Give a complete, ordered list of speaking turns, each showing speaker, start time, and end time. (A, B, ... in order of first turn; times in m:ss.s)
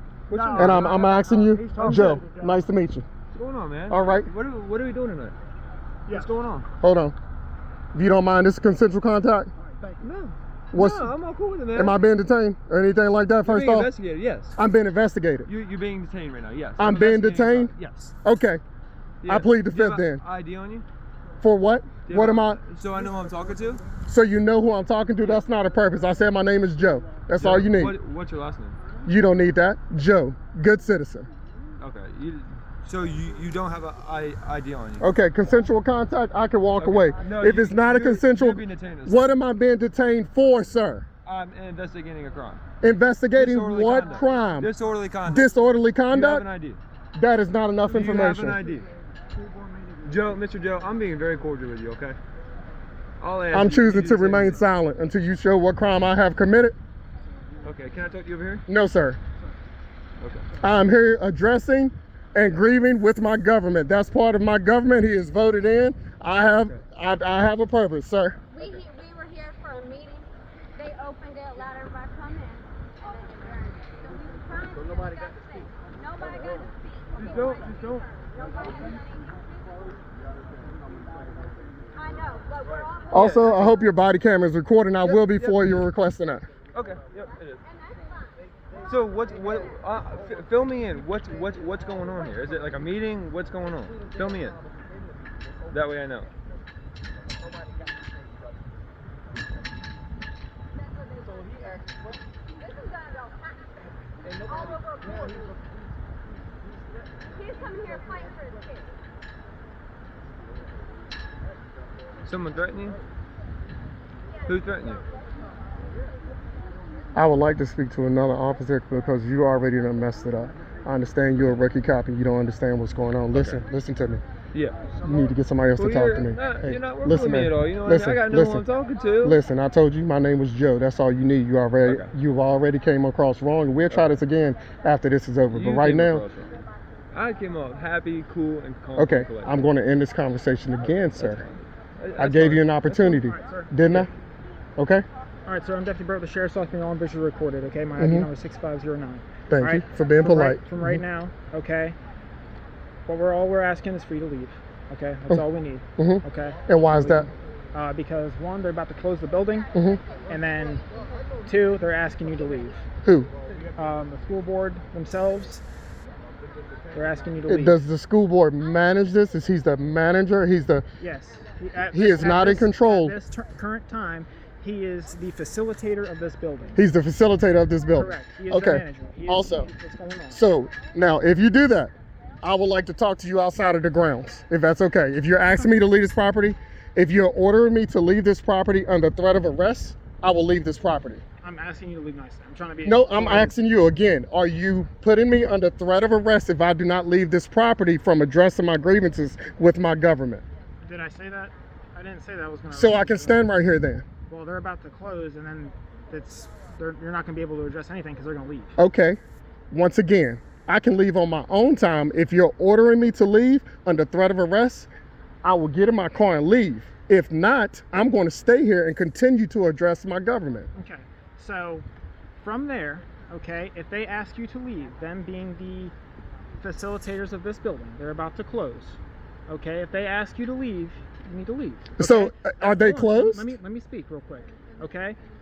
0:00.3-0:02.3 A
0:00.3-0:02.5 B
0:00.6-0:03.1 C
0:03.3-0:05.4 A
0:03.9-0:04.3 C
0:06.1-0:06.7 A
0:06.8-0:07.2 C
0:07.9-0:09.5 C
0:10.0-0:12.0 A
0:10.7-0:11.1 C
0:11.7-0:13.9 C
0:13.4-0:14.6 A
0:14.6-0:15.5 C
0:15.5-0:18.1 A
0:16.8-0:17.7 C
0:18.2-0:18.6 C
0:19.2-0:20.8 A
0:19.3-0:20.2 C
0:21.4-0:22.6 C
0:22.1-0:23.8 A
0:24.0-0:28.0 C
0:27.4-0:28.8 A
0:29.0-0:31.3 C
0:31.8-0:35.1 A
0:35.0-0:41.1 C
0:36.8-0:39.3 A
0:41.2-0:42.6 A
0:42.8-0:44.7 C
0:43.4-0:45.5 A
0:45.3-0:46.4 C
0:46.1-0:46.8 A
0:47.2-0:48.6 C
0:47.9-0:48.9 A
0:50.0-0:52.2 A
0:53.2-0:54.6 A
0:53.5-0:56.8 C
0:57.6-0:58.6 A
0:58.7-0:59.2 C
1:00.2-1:00.5 A
1:00.6-1:08.4 C
1:08.5-1:19.5 D
1:17.2-1:18.1 A
1:22.0-1:23.5 D
1:22.7-1:23.7 A
1:23.1-1:26.5 C
1:25.0-1:25.8 A
1:26.7-1:27.6 A
1:27.7-1:28.4 D
1:28.8-1:34.6 A
1:35.7-1:36.3 A
1:42.7-1:43.5 D
1:44.5-1:45.2 D
1:47.4-1:48.9 D
1:52.2-1:53.0 A
1:54.4-1:55.0 A
1:57.2-2:04.2 C
2:03.3-2:03.6 A
2:04.5-2:04.9 A
2:05.0-2:08.6 C
2:05.7-2:09.4 A
2:09.2-2:16.2 C
2:11.8-2:12.1 A
2:15.5-2:19.7 A
2:19.0-2:21.4 C
2:21.2-2:23.2 A
2:22.2-2:24.1 C
2:23.2-2:23.8 B
2:24.8-2:25.0 C
2:25.5-2:32.0 B
2:28.0-2:28.3 C
2:29.5-2:31.0 C
2:33.1-2:39.7 B
2:36.0-2:37.3 C
2:39.7-2:40.0 C
2:40.3-2:40.9 B
2:41.5-2:42.8 B
2:43.0-2:43.3 C
2:43.8-2:45.6 B
2:46.9-2:47.8 B
2:47.5-2:50.8 C
2:51.0-2:56.8 B
2:51.9-2:53.2 C
2:56.8-2:59.7 C
2:57.9-3:00.4 B
3:00.3-3:11.2 C
3:11.4-3:13.5 B
3:12.8-3:20.4 C
3:20.8-3:23.5 B
3:22.7-3:24.1 C
3:24.3-3:28.8 B
3:28.8-3:29.2 C
3:29.7-3:34.9 C
3:35.4-3:40.7 C
3:40.8-3:41.9 B
3:42.4-3:45.9 B
3:46.6-3:55.2 B
3:52.0-3:53.6 C